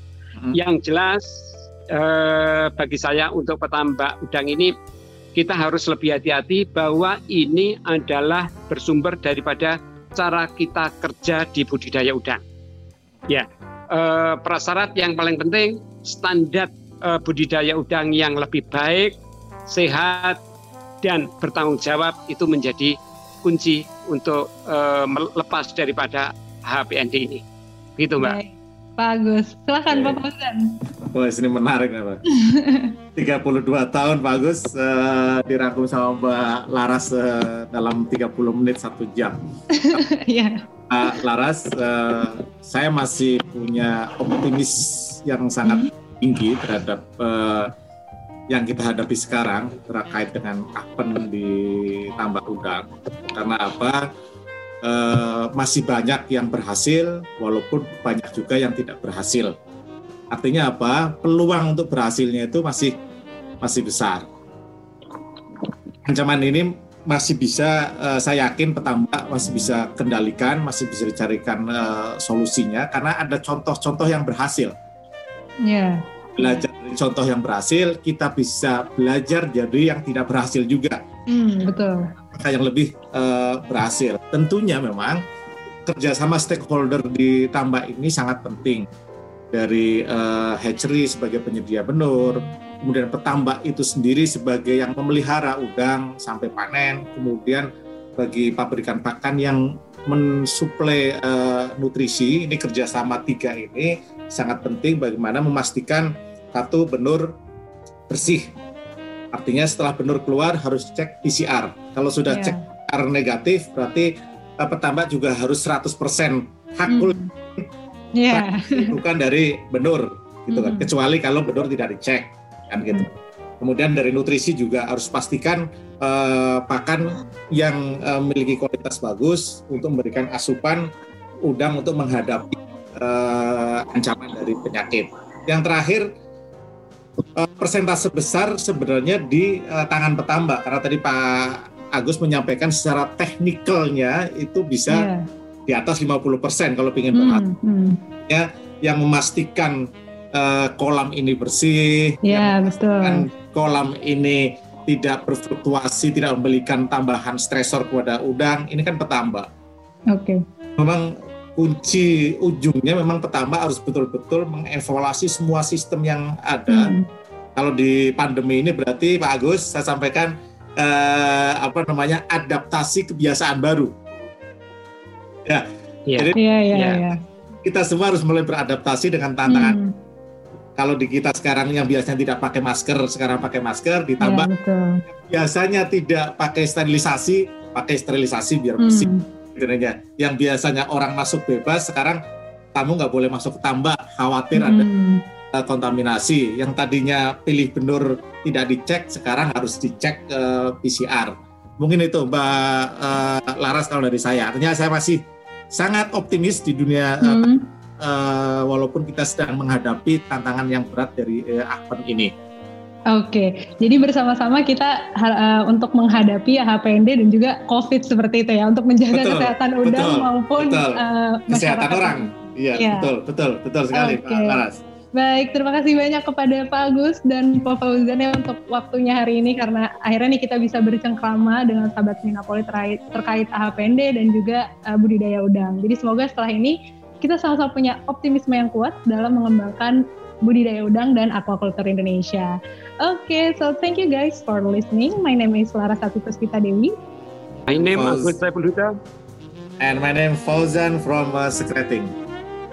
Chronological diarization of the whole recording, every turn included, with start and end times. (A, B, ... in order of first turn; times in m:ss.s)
0:00.5-0:04.7 A
0:05.3-0:12.4 A
0:13.3-0:19.1 A
0:19.7-0:20.4 A
0:21.0-0:27.4 A
0:28.0-0:28.4 A
0:28.2-0:30.8 B
0:29.9-0:30.2 C
0:31.1-0:32.2 C
0:32.3-0:32.9 B
0:33.2-0:39.4 C
0:39.7-0:40.6 B
0:40.9-0:47.7 C
0:45.6-0:45.9 B
0:48.5-0:54.0 C
0:54.8-0:59.5 C
1:00.3-1:03.0 C
1:03.6-1:04.2 C
1:06.0-1:14.7 C
1:15.6-1:16.6 B
1:16.4-1:21.0 C
1:21.3-1:22.0 B
1:22.3-1:25.2 C
1:25.8-1:28.9 C
1:29.5-1:47.4 C
1:48.1-1:48.5 C
1:49.3-1:57.7 C
1:52.3-1:52.6 B
1:56.9-1:57.3 B
1:58.2-1:59.0 B
1:58.3-2:10.9 C
2:00.5-2:00.9 B
2:11.4-2:16.1 C
2:17.4-2:25.1 C
2:24.9-2:25.2 B
2:25.7-2:27.4 C
2:27.1-2:28.0 B
2:28.3-2:39.5 C
2:32.2-2:33.2 B
2:40.1-2:40.4 B
2:40.8-2:46.9 C
2:46.7-2:47.1 B
2:47.6-2:53.9 C
2:55.4-2:56.4 C
2:56.1-2:57.0 A
2:56.3-2:57.2 B
2:57.6-2:59.8 C
2:59.5-2:59.9 B
3:00.8-3:04.5 C
3:04.2-3:05.0 B
3:05.1-3:12.2 C
3:08.8-3:09.2 B
3:12.7-3:14.8 C
3:14.5-3:15.2 B
3:15.5-3:27.5 C
3:27.2-3:27.6 B
3:28.0-3:32.3 C
3:33.1-3:43.1 B
3:39.1-3:44.8 C
3:43.9-3:44.6 B
3:45.2-4:06.9 B
4:07.7-4:08.9 A
4:07.9-4:08.4 C
4:09.8-4:12.1 C